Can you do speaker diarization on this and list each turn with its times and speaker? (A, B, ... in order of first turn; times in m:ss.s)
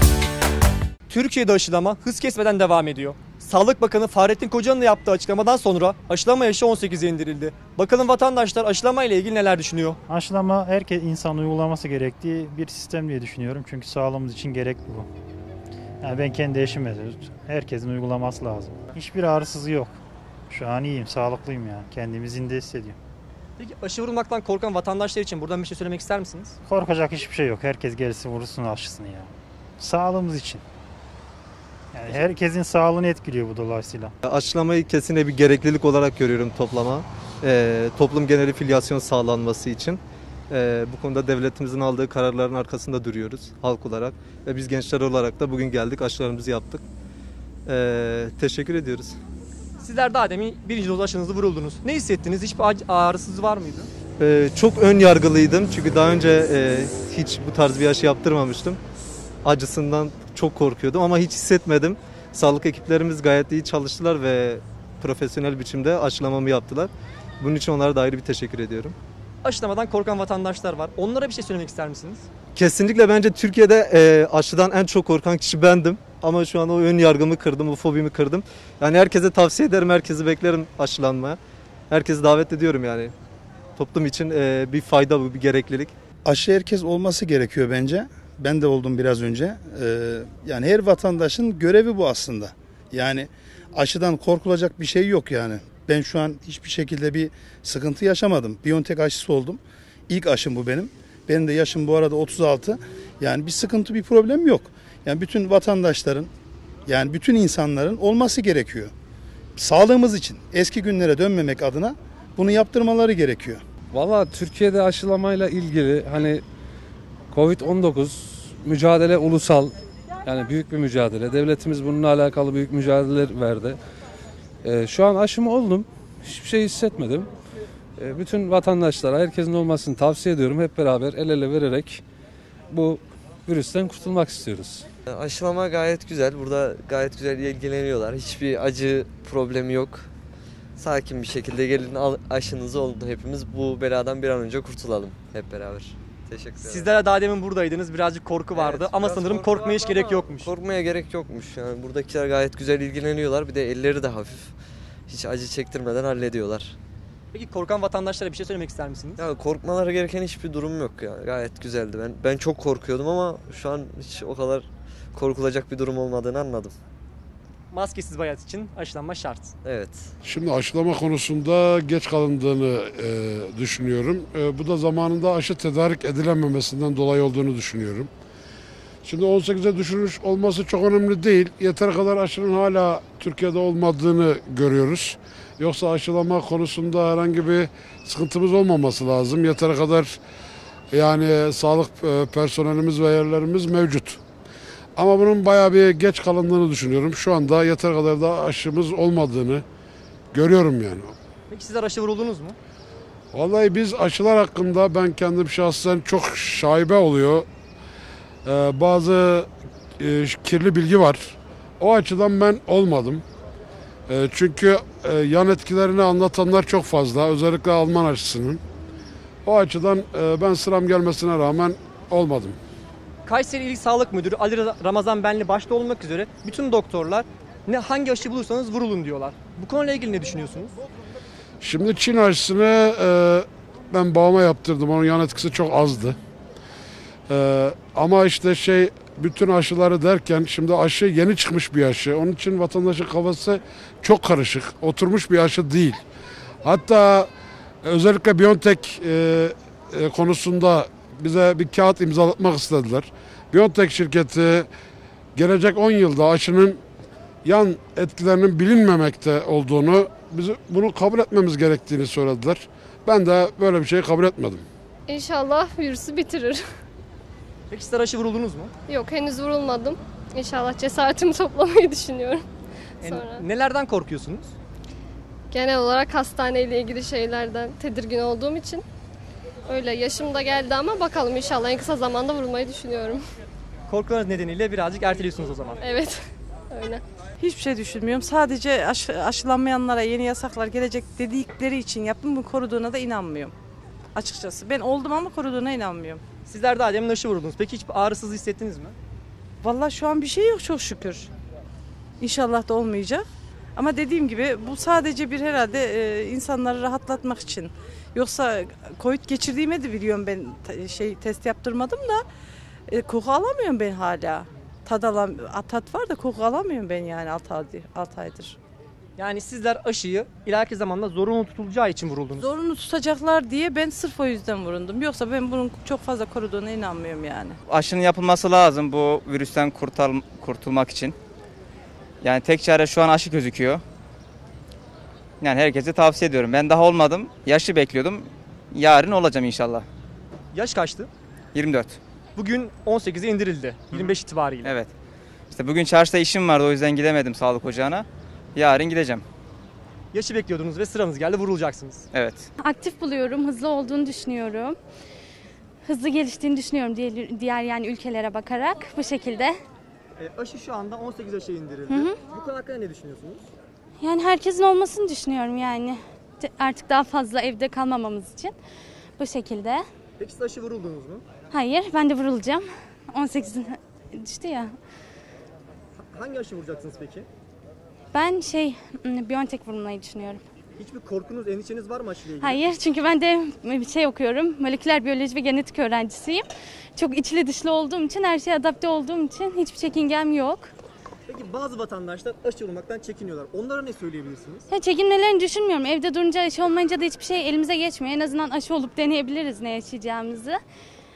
0:01.1-0:10.0 A
0:10.1-0:15.1 B
0:16.0-0:20.0 B
0:20.5-0:23.0 B
0:23.6-0:26.5 A
0:26.7-0:30.6 B
0:31.9-0:34.1 B
0:34.2-0:46.8 C
0:47.7-0:49.2 C
0:49.8-0:53.9 A
0:54.2-0:58.8 C
0:59.4-1:09.0 C
1:09.4-1:12.2 A
1:12.5-1:21.4 C
1:21.9-1:23.1 C
1:23.8-1:25.9 C
1:26.2-1:46.3 D
1:46.9-1:48.9 D
1:49.6-1:53.6 D
1:53.9-1:56.4 E
1:57.3-2:03.8 E
2:04.6-2:07.3 E
2:08.0-2:12.0 E
2:12.7-2:14.8 E
2:15.1-2:20.1 F
2:20.8-2:27.0 F
2:26.6-2:30.5 A
2:28.6-2:34.6 F
2:35.1-2:36.8 F
2:37.3-2:39.2 A
2:39.2-2:46.8 F
2:47.7-2:49.5 A
2:49.6-2:50.1 F
2:50.2-2:58.1 G
2:59.0-3:10.2 G
3:10.9-3:14.2 G
3:15.0-3:19.6 G
3:20.3-3:21.1 G
3:21.5-3:22.6 A
3:23.3-3:27.5 G
3:28.4-3:29.5 G
3:30.0-3:33.2 G
3:34.1-3:38.6 G
3:39.4-3:42.6 G
3:43.3-3:50.7 A
3:51.6-3:56.2 G
3:57.3-4:06.0 G
4:06.6-4:07.3 G
4:07.8-4:14.7 G
4:15.4-4:16.8 G
4:17.4-4:24.7 G
4:25.1-4:26.6 H
4:27.7-4:28.7 A
4:28.9-4:32.5 H
4:33.0-4:33.4 H
4:33.0-4:34.5 A
4:35.5-4:38.8 H
4:39.7-4:43.2 H
4:43.9-4:45.8 A
4:45.8-4:46.2 H
4:46.7-4:47.0 H
4:47.4-4:53.5 I
4:54.2-4:56.2 I
4:56.5-4:58.9 A
4:59.6-5:01.3 I
5:02.2-5:03.2 I
5:03.8-5:12.2 I
5:12.9-5:18.6 I
5:19.2-5:22.4 A
5:22.4-5:27.6 I
5:27.7-5:31.2 J
5:32.2-5:33.8 J
5:35.4-5:39.8 J
5:40.5-5:41.1 A
5:41.5-5:42.0 J
5:42.4-5:44.7 A
5:44.6-5:44.9 J
5:45.5-5:48.0 J
5:48.6-5:49.2 J
5:50.1-5:52.0 A
5:52.1-5:52.5 J
5:52.6-5:54.8 K
5:55.8-5:59.6 K
6:00.2-6:03.4 A
6:01.9-6:02.2 K
6:04.0-6:08.6 K
6:09.2-6:09.8 K
6:10.2-6:11.2 A
6:11.5-6:14.7 K
6:16.1-6:17.3 A
6:18.1-6:20.4 K
6:20.8-6:22.6 A
6:22.4-6:26.4 K
6:27.0-6:30.7 K
6:31.3-6:34.6 A
6:34.7-6:40.6 K